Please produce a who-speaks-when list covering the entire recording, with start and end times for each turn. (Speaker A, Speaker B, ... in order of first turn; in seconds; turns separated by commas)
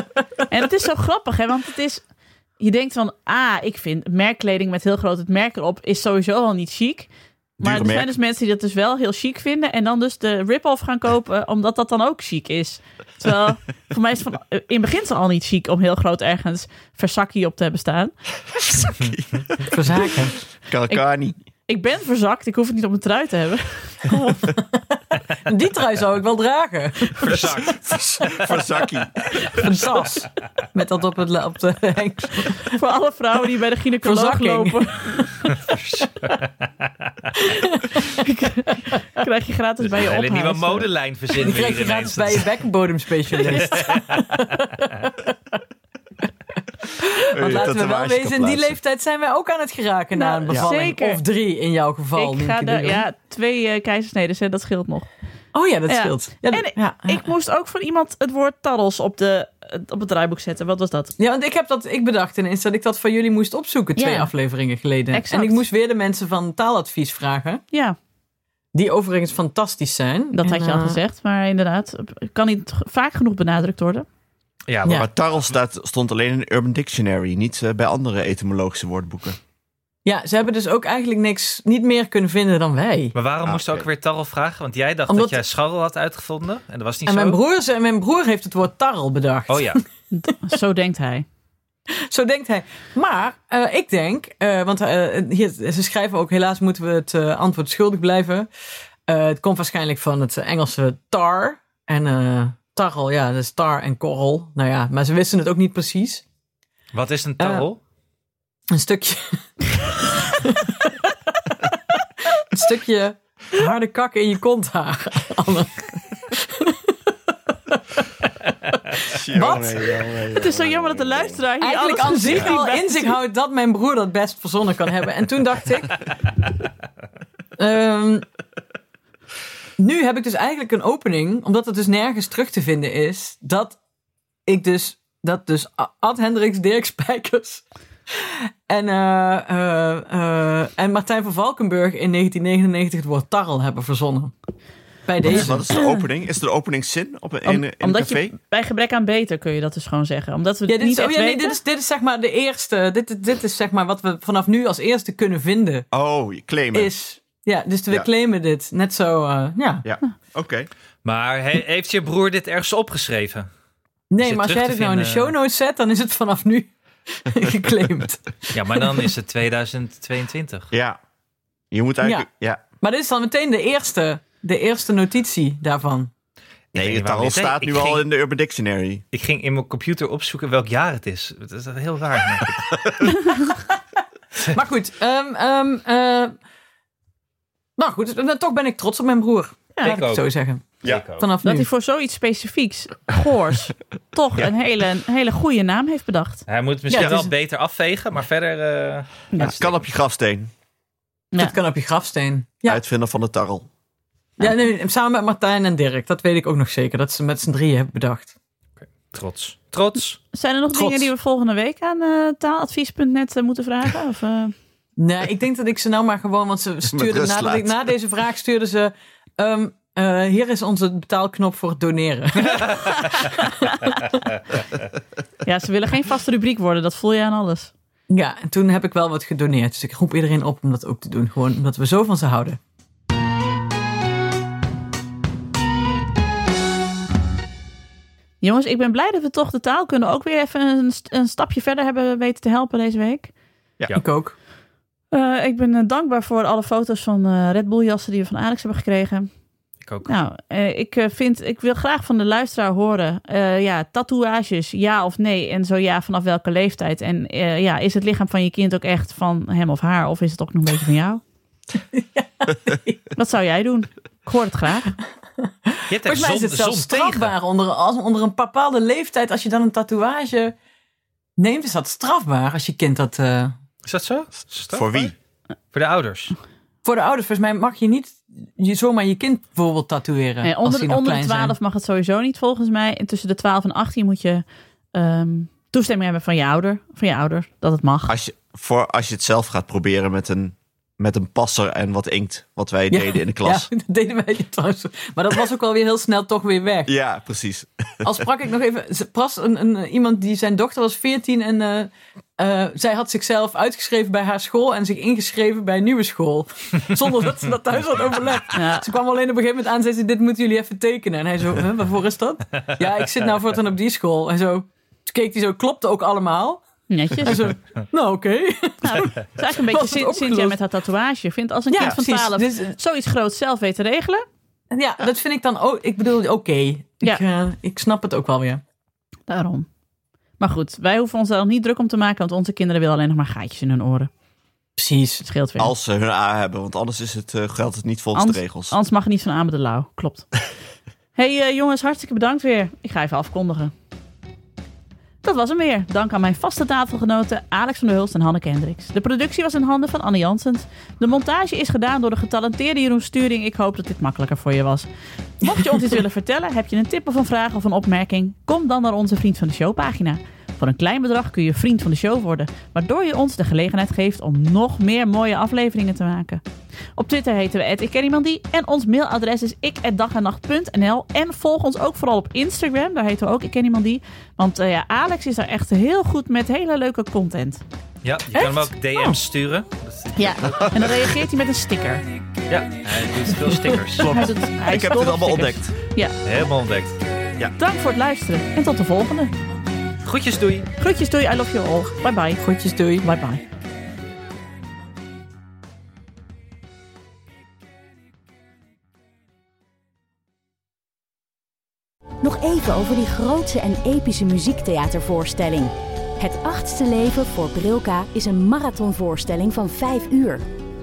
Speaker A: 0.5-2.0, Speaker A: 2.6-7.1, Speaker B: 7.6-8.1, Speaker A: 7.6-18.1, Speaker B: 18.6-21.4, Speaker C: 19.7-20.3, Speaker A: 21.7-24.6, Speaker C: 24.5-27.7, Speaker D: 27.2-28.3, Speaker B: 27.2-29.5, Speaker C: 29.4-32.8, Speaker A: 32.7-35.6, Speaker C: 34.0-35.8, Speaker D: 35.7-37.3, Speaker C: 37.4-38.1, Speaker A: 37.9-40.9, Speaker D: 39.8-42.5, Speaker C: 41.3-45.3, Speaker D: 43.5-44.2, Speaker C: 46.9-53.0, Speaker B: 47.4-48.8, Speaker A: 50.1-51.2, Speaker A: 52.1-55.1, Speaker C: 55.5-57.2, Speaker A: 55.9-61.1, Speaker C: 61.2-67.6, Speaker A: 64.0-64.3, Speaker A: 65.1-65.6, Speaker A: 67.7-68.0, Speaker C: 68.7-71.0, Speaker A: 70.3-74.0, Speaker D: 74.7-75.5, Speaker B: 74.9-79.4, Speaker C: 80.0-83.1, Speaker D: 83.1-87.4, Speaker B: 83.5-83.8, Speaker C: 85.1-85.4, Speaker C: 87.0-89.8, Speaker D: 89.5-89.8, Speaker A: 90.1-91.2, Speaker C: 91.9-98.5, Speaker C: 99.1-106.2, Speaker D: 106.9-107.8, Speaker C: 107.4-107.7, Speaker C: 108.7-110.9, Speaker C: 112.3-116.9, Speaker C: 119.0-119.9, Speaker B: 119.1-121.4, Speaker A: 120.3-123.2, Speaker C: 121.6-126.1, Speaker C: 127.6-128.2, Speaker C: 129.8-133.8, Speaker C: 134.5-144.3, Speaker C: 145.1-145.8, Speaker B: 145.2-148.3, Speaker A: 147.4-151.6, Speaker C: 150.7-155.9, Speaker B: 155.9-156.9, Speaker C: 156.7-159.8, Speaker B: 159.8-160.7, Speaker D: 161.0-163.5, Speaker C: 164.1-169.0, Speaker D: 164.2-165.3, Speaker D: 168.5-170.7, Speaker B: 170.7-171.0, Speaker B: 171.7-172.6, Speaker C: 172.8-176.1, Speaker D: 176.7-178.0, Speaker B: 176.7-179.0, Speaker D: 179.1-182.8, Speaker C: 184.4-186.3, Speaker C: 187.8-190.7, Speaker D: 189.8-190.3, Speaker D: 190.8-191.2, Speaker C: 191.2-191.7, Speaker A: 191.4-196.4, Speaker D: 196.5-199.8, Speaker C: 196.9-197.3, Speaker B: 199.4-200.5, Speaker C: 201.4-202.8, Speaker B: 202.7-203.7, Speaker C: 204.4-208.3, Speaker D: 208.8-210.2, Speaker A: 210.3-214.5, Speaker C: 210.7-211.1, Speaker C: 215.0-224.1, Speaker B: 216.9-217.7, Speaker A: 225.4-227.7, Speaker C: 228.1-232.6, Speaker A: 238.4-243.3, Speaker C: 243.9-244.3, Speaker A: 245.1-249.3, Speaker D: 249.8-250.1, Speaker A: 250.0-261.2, Speaker C: 261.9-263.0, Speaker A: 263.1-265.0, Speaker C: 265.7-270.5, Speaker D: 265.9-267.3, Speaker C: 271.4-273.5, Speaker D: 273.8-275.1, Speaker B: 274.7-275.1, Speaker D: 275.7-276.3, Speaker C: 276.8-281.6, Speaker A: 280.4-288.1, Speaker B: 288.1-293.7, Speaker C: 292.9-296.9, Speaker B: 296.9-298.3, Speaker C: 298.0-316.6, Speaker A: 308.5-308.9, Speaker A: 316.9-317.5, Speaker C: 317.2-320.6, Speaker A: 318.8-324.2, Speaker C: 321.7-322.8, Speaker C: 324.7-328.6, Speaker A: 329.3-329.7, Speaker A: 330.4-334.1, Speaker C: 334.8-335.2, Speaker A: 335.2-335.7, Speaker B: 335.6-338.7, Speaker A: 338.1-340.3, Speaker A: 341.1-343.7, Speaker A: 345.2-354.9, Speaker A: 355.4-366.4, Speaker A: 367.0-377.6, Speaker D: 378.0-380.9, Speaker A: 378.3-378.7, Speaker A: 380.1-382.0, Speaker B: 380.4-380.7, Speaker D: 382.5-384.2, Speaker C: 383.5-384.2, Speaker A: 384.0-386.2, Speaker B: 384.0-385.7, Speaker D: 386.2-387.0, Speaker A: 387.6-389.3, Speaker D: 390.0-390.7, Speaker A: 390.8-392.4, Speaker C: 392.4-393.1, Speaker A: 393.0-393.4, Speaker E: 402.2-410.4